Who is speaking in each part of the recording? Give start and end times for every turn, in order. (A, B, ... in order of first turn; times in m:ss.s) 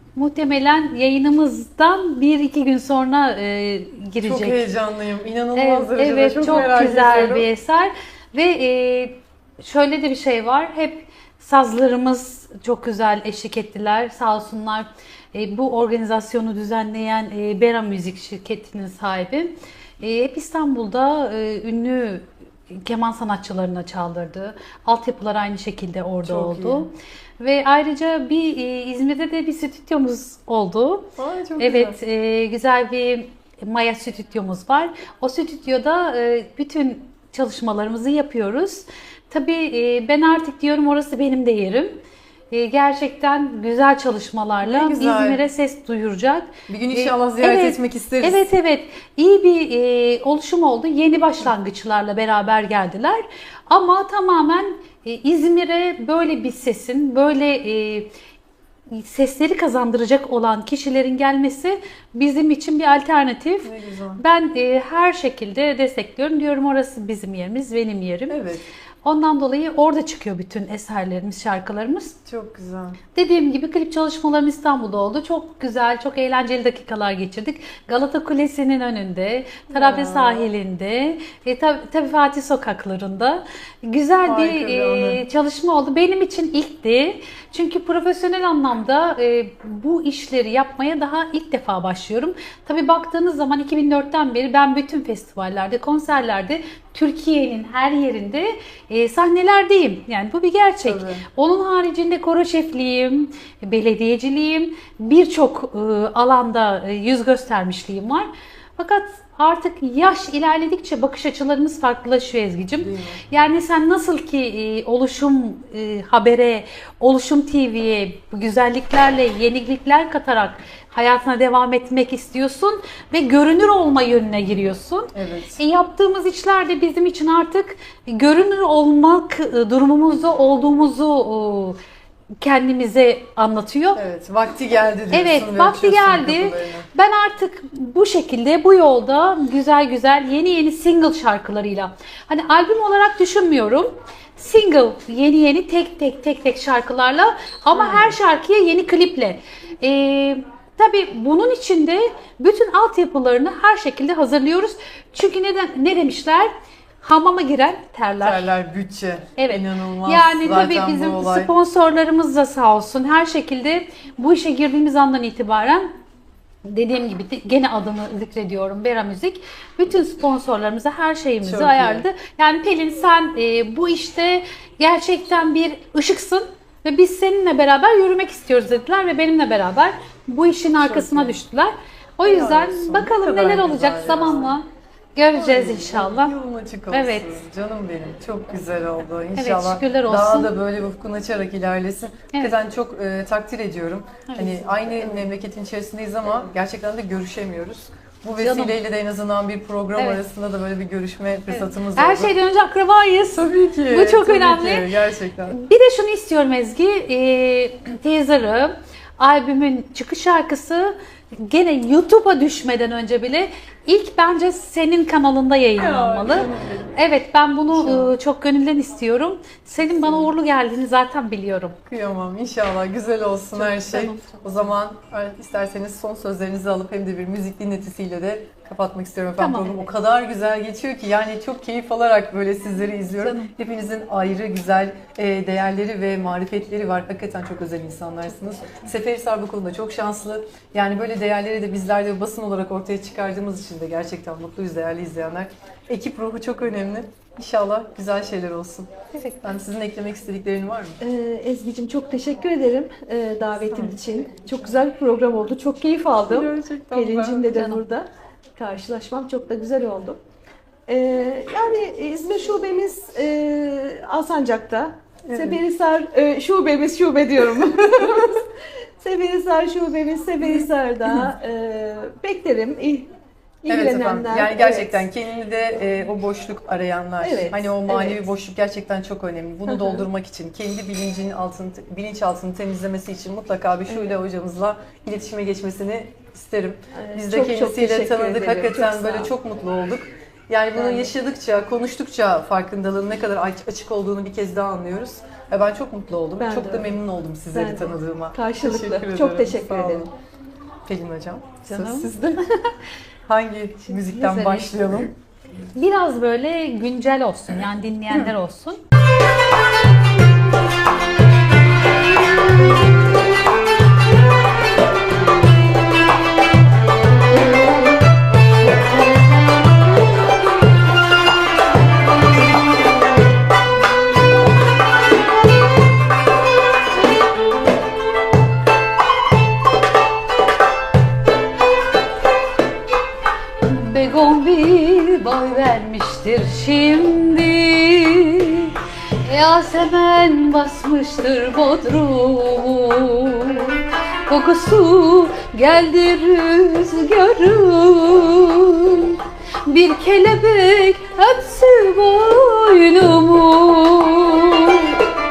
0:00.2-0:04.7 A
0:04.2-0:07.5 B
0:05.6-0:42.0 A
0:26.2-0:26.9 B
0:31.2-0:32.0 B
0:42.5-0:58.1 A
0:44.6-0:45.4 B
0:46.7-0:48.5 B
0:58.9-1:08.4 A
1:03.6-1:04.2 B
1:08.3-1:08.6 B
1:09.0-1:12.2 A
1:12.3-1:13.0 B
1:13.2-2:11.8 A
1:19.7-1:20.5 B
1:24.2-1:25.2 B
1:40.8-1:41.3 B
1:52.8-1:53.2 B
2:05.1-2:05.6 B
2:12.4-2:14.0 A
2:14.0-2:16.9 B
2:15.1-2:36.5 A
2:27.7-2:28.2 B
2:37.0-2:38.5 A
2:38.2-2:41.5 B
2:39.4-2:45.9 A
2:46.6-3:06.3 A
2:51.4-2:52.1 B
3:00.8-3:01.4 B
3:02.2-3:04.6 B
3:05.3-3:22.4 B
3:06.9-3:07.4 A
3:09.4-3:10.6 A
3:14.3-3:14.8 A
3:18.4-3:18.8 A
3:20.0-3:20.2 A
3:21.5-3:24.9 A
3:23.3-3:25.6 B
3:25.5-3:41.8 A
3:35.8-3:37.0 B
3:37.7-3:38.1 B
3:39.8-3:40.3 B
3:41.9-4:08.9 B
3:43.6-3:44.4 A
3:49.4-3:49.9 A
3:53.1-3:53.5 A
4:09.1-4:09.4 A
4:09.4-4:11.0 B
4:11.0-4:20.2 C
4:13.6-4:14.0 B
4:16.2-4:17.6 B
4:17.5-4:17.8 A
4:20.9-4:28.4 C
4:25.3-4:25.6 B
4:29.0-4:33.1 C
4:33.6-4:35.0 C
4:33.7-5:00.1 B
4:37.2-4:38.3 C
4:39.7-4:40.1 C
4:43.9-4:44.2 C
4:46.9-4:49.3 C
4:50.8-4:51.1 C
4:56.4-4:57.0 C
4:57.5-5:00.1 C
5:00.9-5:02.4 B
5:01.7-5:02.0 C
5:01.7-5:02.1 A
5:03.3-5:05.1 B
5:03.9-5:04.8 A
5:05.8-5:08.8 A
5:33.6-5:55.0 A